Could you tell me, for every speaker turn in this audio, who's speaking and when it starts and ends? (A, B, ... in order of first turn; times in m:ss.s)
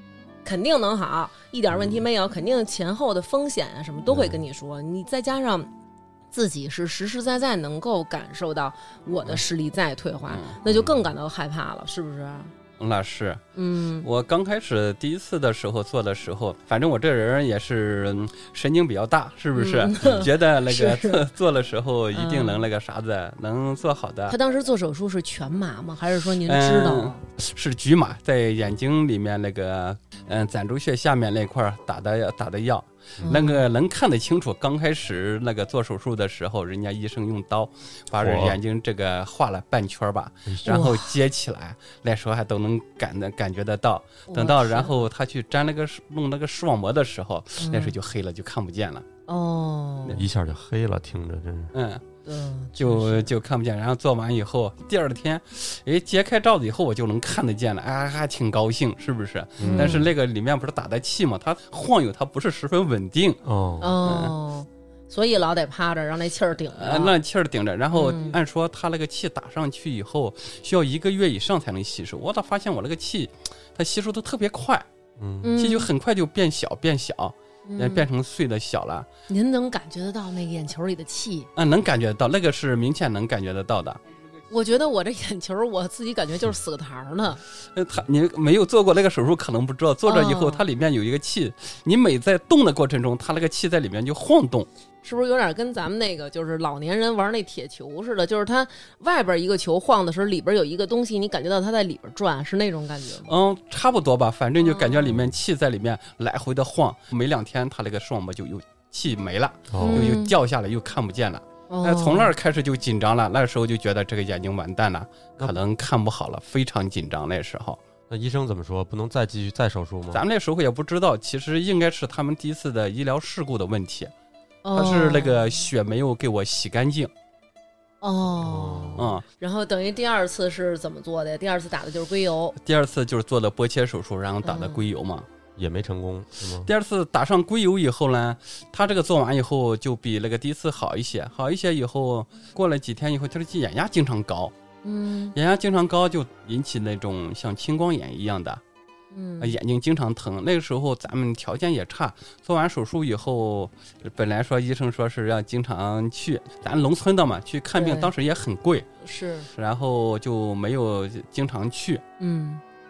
0:00.4-0:05.7 A
0:01.7-0:02.0 B
0:04.1-0:04.4 B
0:06.3-0:12.5 A
0:10.3-0:10.5 C
0:10.6-0:11.0 B
0:12.8-0:13.4 C
0:13.5-0:14.1 A
0:14.0-0:24.4 C
0:19.6-0:21.2 A
0:22.1-0:22.6 A
0:24.3-0:27.2 A
0:26.4-0:49.0 C
0:33.2-0:33.6 A
0:38.2-0:38.6 B
0:40.6-0:41.1 A
0:44.3-0:44.9 A
0:47.6-0:47.9 A
0:49.3-0:50.2 A
0:50.1-0:51.7 B
0:51.7-0:52.0 C
0:52.2-0:53.3 A
0:52.8-1:03.4 C
0:59.6-1:00.1 B
0:59.6-1:00.1 A
1:03.4-1:04.0 B
1:03.8-1:07.1 A
1:04.0-1:04.3 C
1:06.8-1:14.8 C
1:07.9-1:08.4 A
1:15.2-1:15.5 B
1:15.4-1:15.9 A
1:15.6-1:19.1 C
1:17.7-1:18.1 A
1:19.3-1:21.5 A
1:21.6-1:24.0 C
1:24.5-1:27.4 A
1:27.7-1:34.7 C
1:30.0-1:30.6 A
1:35.0-1:43.3 A
1:43.3-1:57.8 C
1:44.6-1:45.2 A
1:49.7-1:50.1 B
1:49.8-1:50.3 A
1:51.7-1:52.3 A
1:58.1-2:00.2 B
2:00.1-2:04.1 C
2:04.6-2:05.5 A
2:04.7-2:07.1 C
2:08.0-2:12.5 A
2:08.4-2:09.2 B
2:09.0-2:09.2 C
2:12.6-2:15.2 C
2:14.4-2:14.8 A
2:15.6-2:16.7 B
2:16.6-2:24.5 C
2:24.8-2:25.3 A
2:25.3-2:28.6 C
2:29.1-2:29.5 A
2:29.4-2:38.9 C
2:37.7-2:38.1 A
2:39.0-2:39.5 A
2:39.5-2:42.0 C
2:42.2-2:42.6 A